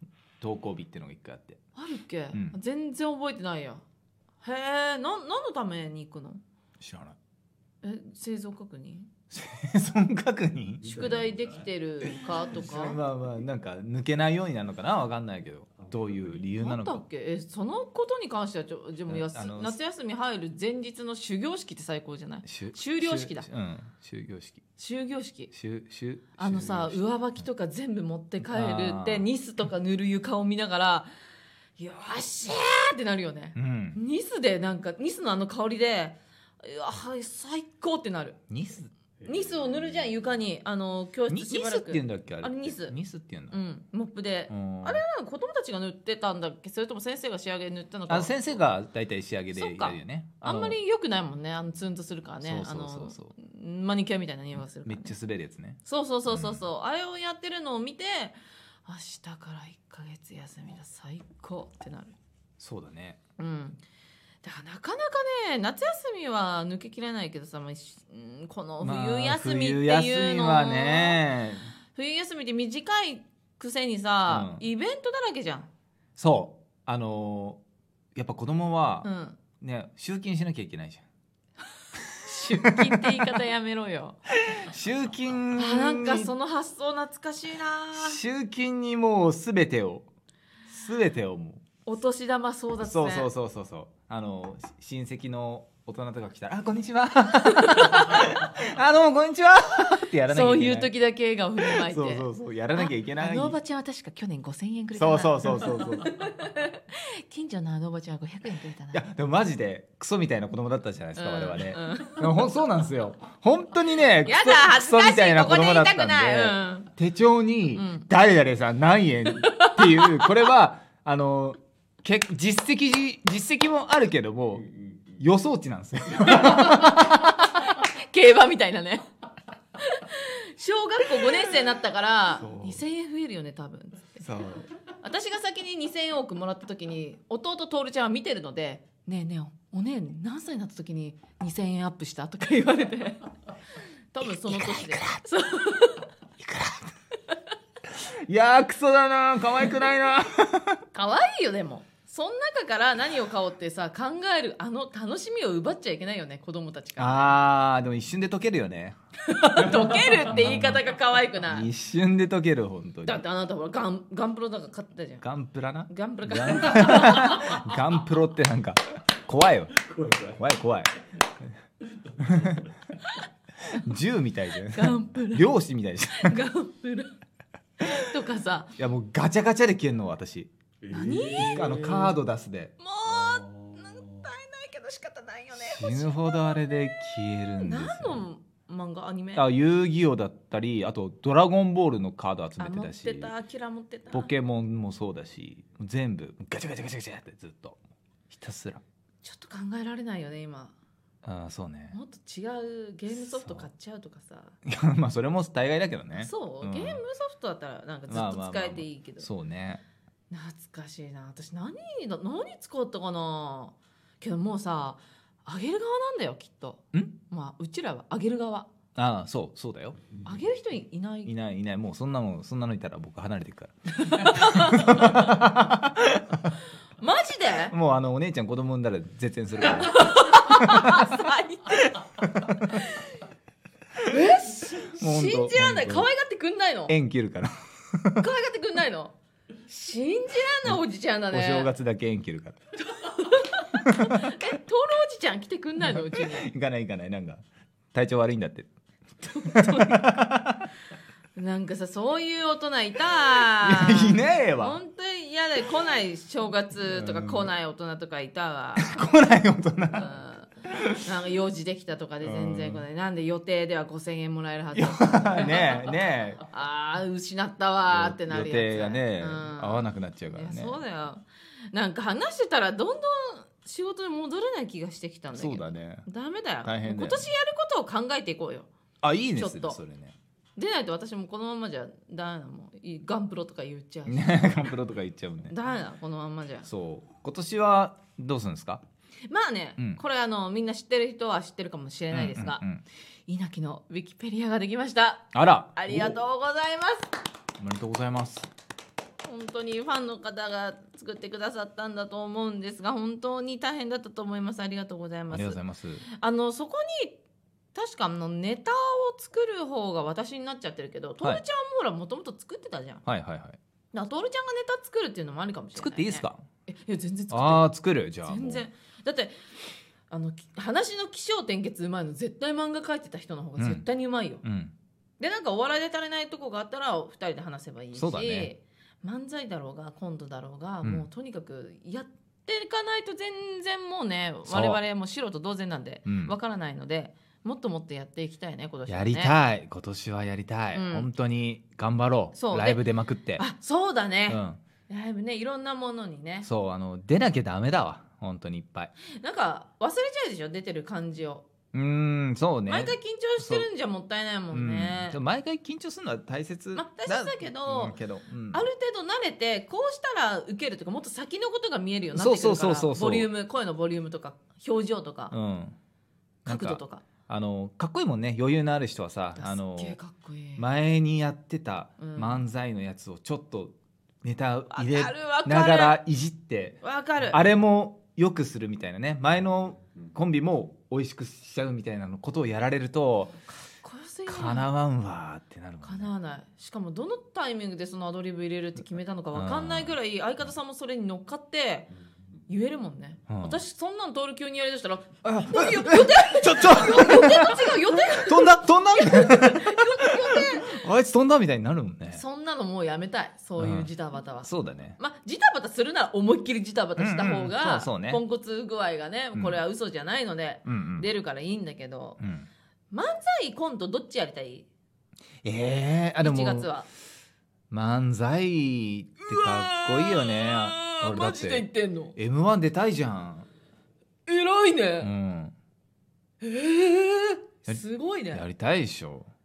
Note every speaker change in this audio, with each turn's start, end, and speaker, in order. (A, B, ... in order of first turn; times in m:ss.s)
0:00.4-0:01.6 A
0:01.8-0:03.8 B
0:04.4-0:06.4 B
0:06.8-0:07.2 A
0:07.8-0:09.1 B
0:09.3-0:11.2 A
0:10.8-0:13.0 B
0:12.0-0:17.0 A
0:16.6-0:23.5 B
0:19.1-0:19.8 A
0:22.5-0:24.6 A
0:24.8-0:25.5 B
0:25.5-0:27.0 A
0:26.4-0:31.1 B
0:28.4-0:29.3 A
0:31.8-0:38.4 B
0:33.6-0:34.0 A
0:38.5-0:38.9 A
0:39.2-0:43.0 B
0:41.3-0:43.6 A
0:43.5-0:48.5 B
0:44.5-0:45.0 A
0:48.1-0:50.8 A
0:49.5-0:55.2 B
0:52.4-0:53.4 A
0:54.8-0:56.6 A
0:55.8-1:02.2 B
1:02.6-1:03.2 A
1:03.4-1:03.8 B
1:04.4-1:11.2 B
1:08.8-1:11.7 A
1:11.9-1:15.7 B
1:14.3-1:14.6 A
1:16.2-1:17.6 A
1:18.2-1:19.1 A
1:19.0-1:19.4 B
1:19.6-1:21.0 A
1:22.1-1:24.2 B
1:22.3-1:23.3 A
1:24.4-1:26.3 A
1:25.6-1:28.2 B
1:28.0-1:30.1 A
1:30.7-1:31.6 A
1:31.9-1:33.3 B
1:32.8-1:40.9 A
1:37.3-1:38.3 B
1:40.3-1:49.0 B
1:41.6-1:43.6 A
1:45.0-1:46.1 A
1:48.9-2:07.4 A
1:51.2-1:52.3 B
1:54.2-1:56.9 B
1:57.7-1:58.1 B
1:59.3-2:00.4 B
2:06.3-2:09.1 B
2:09.8-2:23.3 B
2:12.4-2:12.8 A
2:14.2-2:14.7 A
2:24.1-2:26.1 B
2:24.2-2:25.2 A
2:26.4-2:26.9 A
2:27.9-2:30.8 A
2:30.9-2:37.4 B
2:37.0-2:39.0 A
2:39.2-2:41.7 B
2:40.3-2:40.8 A
2:41.5-2:43.2 A
2:43.1-2:45.2 B
2:45.2-2:51.5 A
2:45.9-2:47.6 B
2:52.2-2:52.7 A
2:53.0-2:53.9 B
2:53.7-2:56.4 A
2:54.7-2:55.5 B
2:56.1-2:57.2 B
2:57.8-2:58.7 B
2:58.8-3:00.5 A
3:00.9-3:02.0 B
3:01.2-3:02.7 A
3:02.8-3:06.9 B
3:05.6-3:08.2 A
3:07.5-3:09.5 B
3:09.4-3:13.3 A
3:12.6-3:14.3 B
3:14.1-3:17.8 A
3:18.3-3:18.8 A
3:19.2-3:20.8 B
3:21.2-3:22.0 A
3:21.9-3:24.6 B
3:23.1-3:23.7 A
3:24.7-3:27.0 A
3:26.1-3:29.3 B
3:28.1-3:29.8 A
3:30.3-3:38.7 B
3:39.0-3:40.0 A
3:40.2-3:41.3 B
3:41.3-3:46.5 A
3:44.0-3:45.2 B
3:47.0-3:47.8 B
3:47.7-3:51.2 A
3:49.7-3:53.2 B
3:52.2-3:52.6 A
3:54.0-3:57.0 B
3:54.8-3:56.1 A
3:56.9-3:58.2 A
3:58.2-3:59.2 B
3:59.7-4:01.7 B
4:00.6-4:02.6 A
4:02.8-4:06.5 B
4:03.9-4:04.4 A
4:05.8-4:08.7 A
4:09.2-4:10.1 B
4:09.4-4:10.7 A
4:11.4-4:19.0 B
4:13.6-4:14.8 A
4:16.9-4:17.5 A
4:18.8-4:20.2 A
4:19.9-4:20.5 B
4:20.7-4:21.0 A
4:21.0-4:38.7 B
4:22.2-4:22.8 A
4:24.7-4:26.4 A
4:27.9-4:30.8 A
4:35.4-4:36.1 A
4:36.6-4:37.3 A
4:39.0-4:40.2 A
4:39.4-4:39.8 B
4:40.6-4:44.7 B
4:44.1-4:45.6 A
4:45.5-4:46.7 B
4:46.7-4:48.8 A
4:49.3-4:52.6 B
4:52.1-4:52.8 A
4:53.3-4:57.1 B
4:55.3-4:56.2 A
4:57.6-4:58.5 A
4:59.2-5:07.2 B
5:05.3-5:06.0 A
5:07.7-5:13.0 B
5:13.1-5:13.6 A
5:13.9-5:17.6 B
5:15.8-5:16.4 A
5:17.3-5:18.6 A
5:18.2-5:19.5 B
5:20.1-5:24.4 B
5:23.6-5:23.8 A
5:24.4-5:24.7 A
5:25.2-5:39.4 B
5:28.0-5:28.5 A
5:34.5-5:34.8 A
5:36.1-5:36.3 A
5:38.9-5:43.4 A
5:40.7-5:41.1 B
5:42.4-5:42.8 B
5:43.4-5:46.5 B
5:44.3-5:44.6 A
5:46.4-5:48.9 A
5:49.1-5:51.5 B
5:51.7-5:53.7 A
5:52.7-5:55.2 B
5:54.5-5:58.7 A
5:56.8-5:58.0 B
5:58.5-6:05.4 B
6:02.1-6:03.3 A
6:05.3-6:05.8 A
6:06.4-6:07.0 B
6:06.5-6:10.0 A
6:09.4-6:10.7 B
6:10.6-6:23.4 A
6:12.0-6:12.4 B
6:14.7-6:16.0 B
6:16.8-6:17.4 B
6:23.8-6:24.7 B
6:24.3-6:26.1 A
6:25.8-6:31.9 B
6:29.3-6:30.0 A
6:32.5-6:40.8 B
6:33.3-6:33.6 A
6:35.2-6:42.2 A
6:42.1-6:52.2 B
6:43.6-6:43.9 A
6:44.4-6:45.0 A
6:47.0-6:48.2 A
6:50.7-6:51.1 A
6:52.2-6:52.5 A
6:52.9-6:54.7 B
6:55.4-6:56.7 A
6:56.2-6:56.9 B
6:57.7-7:03.5 A
6:59.2-7:02.2 B
7:04.3-7:05.1 B
7:05.0-7:05.5 A
7:06.4-7:08.4 B
7:07.7-7:09.3 A